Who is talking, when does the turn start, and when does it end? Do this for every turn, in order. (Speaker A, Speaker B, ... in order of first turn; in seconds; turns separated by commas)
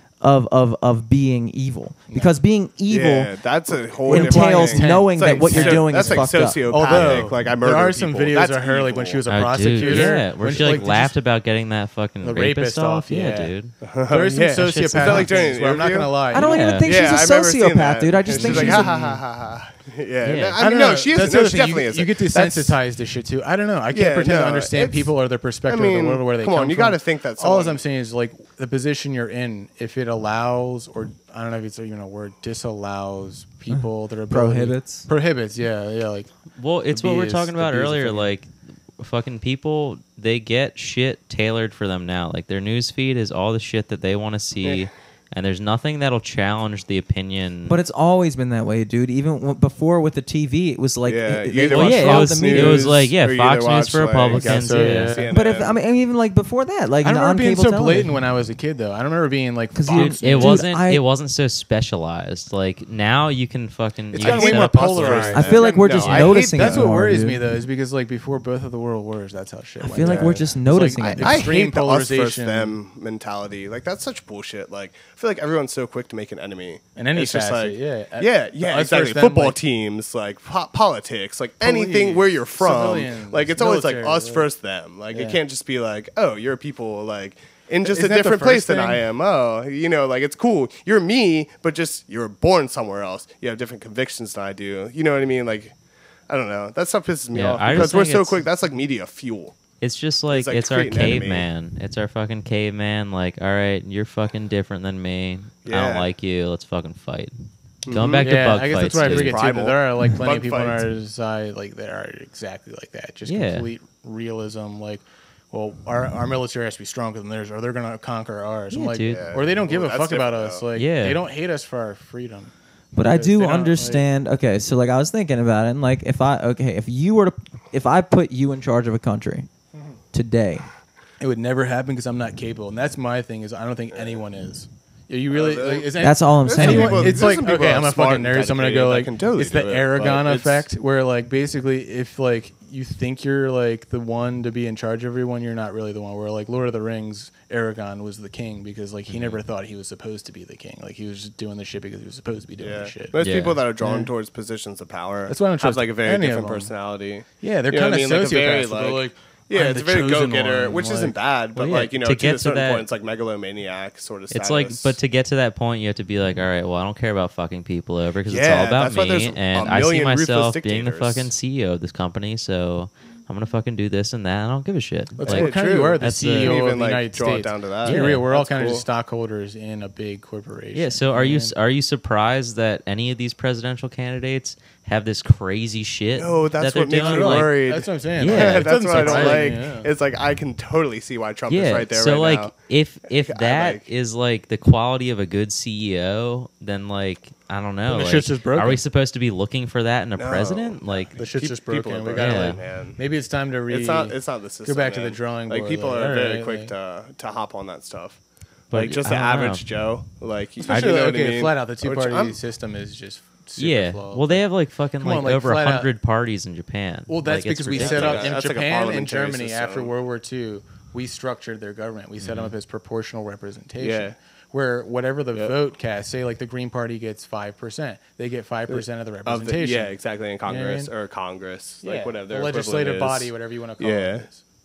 Speaker A: 0.2-7.2, Speaker B: 2.9-9.2, Speaker C: 4.0-11.2, Speaker D: 9.3-13.7, Speaker B: 9.8-10.1, Speaker C: 12.2-13.5, Speaker B: 13.8-16.2, Speaker C: 14.1-16.6, Speaker D: 15.0-15.2, Speaker A: 16.3-18.9, Speaker D: 16.4-16.9, Speaker B: 16.8-22.8, Speaker D: 18.3-19.0, Speaker D: 20.2-20.6, Speaker C: 20.6-36.3, Speaker B: 23.9-25.1, Speaker B: 25.7-27.8, Speaker A: 33.7-35.1, Speaker D: 36.6-47.8, Speaker C: 36.9-38.3, Speaker A: 47.7-52.9, Speaker B: 51.0-55.8, Speaker D: 51.7-55.2, Speaker C: 54.3-55.3, Speaker A: 55.3-58.1, Speaker C: 57.0-60.6, Speaker A: 59.8-61.0, Speaker D: 59.9-65.5, Speaker C: 64.1-72.8, Speaker B: 64.2-66.9, Speaker A: 65.3-67.4, Speaker A: 69.8-71.5, Speaker B: 70.0-70.4, Speaker B: 71.0-95.8, Speaker C: 77.0-79.6, Speaker C: 81.6-84.5, Speaker C: 85.1-85.4, Speaker C: 87.8-89.0, Speaker B: 96.3-99.6, Speaker D: 97.3-98.4, Speaker D: 99.8-107.3, Speaker B: 100.3-101.5, Speaker B: 105.7-106.1, Speaker B: 107.8-108.3, Speaker D: 107.9-109.4, Speaker C: 108.2-124.0, Speaker B: 109.0-110.8, Speaker D: 113.3-113.7, Speaker D: 118.7-119.3, Speaker B: 119.1-120.7, Speaker D: 120.8-121.2, Speaker A: 122.9-129.5, Speaker A: 130.1-130.7, Speaker C: 131.2-153.1, Speaker B: 135.3-140.7, Speaker A: 136.0-137.3, Speaker D: 149.1-149.4, Speaker B: 152.6-165.0, Speaker D: 153.2-153.6, Speaker C: 153.8-154.1, Speaker C: 155.3-156.7, Speaker C: 157.4-161.2, Speaker D: 161.6-162.9, Speaker D: 164.3-176.6, Speaker B: 168.3-171.3, Speaker C: 175.2-181.5, Speaker B: 175.2-178.8, Speaker D: 177.8-178.2, Speaker D: 180.8-187.6, Speaker B: 186.2-192.5, Speaker C: 186.9-189.9, Speaker D: 188.2-189.6, Speaker D: 191.5-201.2, Speaker B: 193.3-193.8, Speaker C: 197.9-198.8, Speaker B: 200.2-203.0, Speaker C: 201.2-206.7, Speaker D: 202.2-202.6, Speaker B: 203.7-212.4, Speaker D: 208.7-209.7, Speaker C: 210.6-214.4, Speaker D: 213.6-218.3, Speaker C: 215.0-215.9, Speaker C: 217.1-230.9, Speaker B: 217.8-219.9, Speaker D: 222.2-222.5, Speaker B: 223.8-224.2, Speaker B: 228.7-234.3, Speaker C: 231.8-234.4